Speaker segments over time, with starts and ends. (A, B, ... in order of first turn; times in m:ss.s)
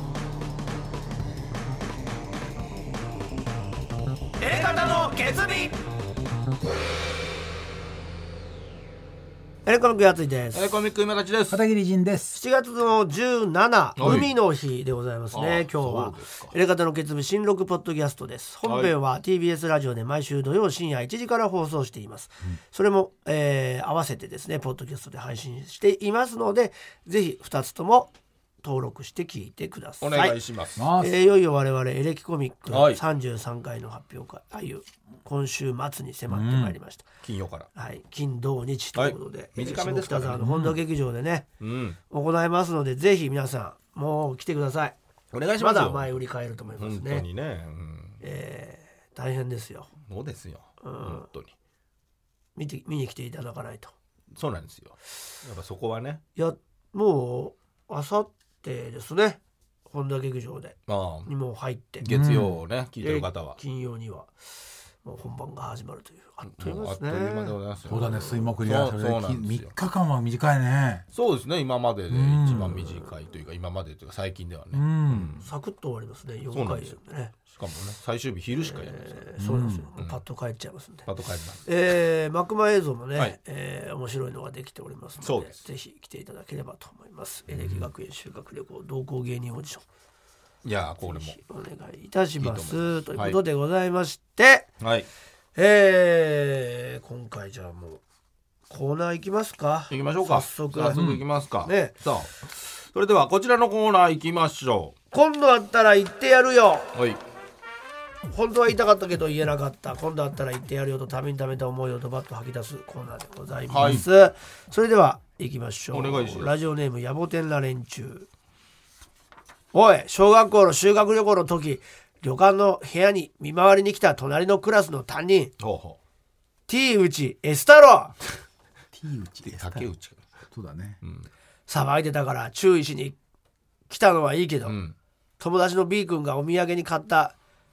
0:04.4-0:05.8 A
0:09.6-0:10.8 A
0:10.5-0:11.6 B
0:11.5-0:12.4 C
0:12.3-0:30.4 A
0:14.0-0:14.3 B
0:15.3-0:16.6 B
0:18.6-0:18.9 B
0:30.0-0:30.8 B
0:30.8-0:31.2 C
0:31.0-0:37.0 A
0:32.7-0:33.0 B
0:36.3-0:36.8 C
0:37.2-0:37.7 B
0:37.7-0:41.5 A
0:38.9-0:40.5 B
0:40.4-0:40.8 C
0:41.6-0:42.0 B
0:42.1-0:45.0 A
0:45.3-0:46.2 B
0:45.6-0:47.2 A
0:46.8-0:48.2 B
0:48.2-0:49.9 A
0:50.1-0:51.5 B
0:50.8-0:51.2 A
0:52.5-0:53.9 A
0:54.3-0:56.2 B
0:56.3-1:02.1 A
1:00.9-1:01.3 B
1:02.0-1:03.6 B
1:02.0-1:02.6 C
1:03.0-1:04.3 A
1:05.0-1:07.6 A
1:06.4-1:09.7 B
1:07.8-1:11.0 C
1:11.1-1:15.5 B
1:12.1-1:13.1 C
1:14.7-1:15.3 C
1:15.4-1:17.3 A
1:16.5-1:17.0 B
1:17.5-1:19.3 B
1:18.5-1:21.1 A
1:19.4-1:19.9 C
1:20.0-1:20.2 B
1:21.0-1:21.7 B
1:21.6-1:29.8 A
1:25.2-1:25.6 B
1:27.5-1:27.9 B
1:30.6-1:31.4 B
1:31.0-1:34.7 A
1:32.4-1:33.4 B
1:34.8-1:35.1 B
1:35.5-1:38.0 A
1:38.7-1:41.0 A
1:39.9-1:44.9 B
1:40.9-1:41.2 C
1:41.6-1:42.0 A
1:45.1-1:46.9 A
1:46.9-1:47.2 B
1:48.3-1:58.3 A
1:53.7-1:54.0 B
1:53.8-1:54.0 C
1:55.9-1:56.6 B
1:59.7-2:05.5 A
2:05.6-2:06.0 B
2:06.7-2:08.2 A
2:08.9-2:09.9 C
2:09.5-2:10.2 B
2:10.5-2:11.0 C
2:11.0-2:11.3 B
2:11.7-2:13.2 A
2:13.9-2:14.8 A
2:14.6-2:14.9 B
2:15.4-2:17.3 A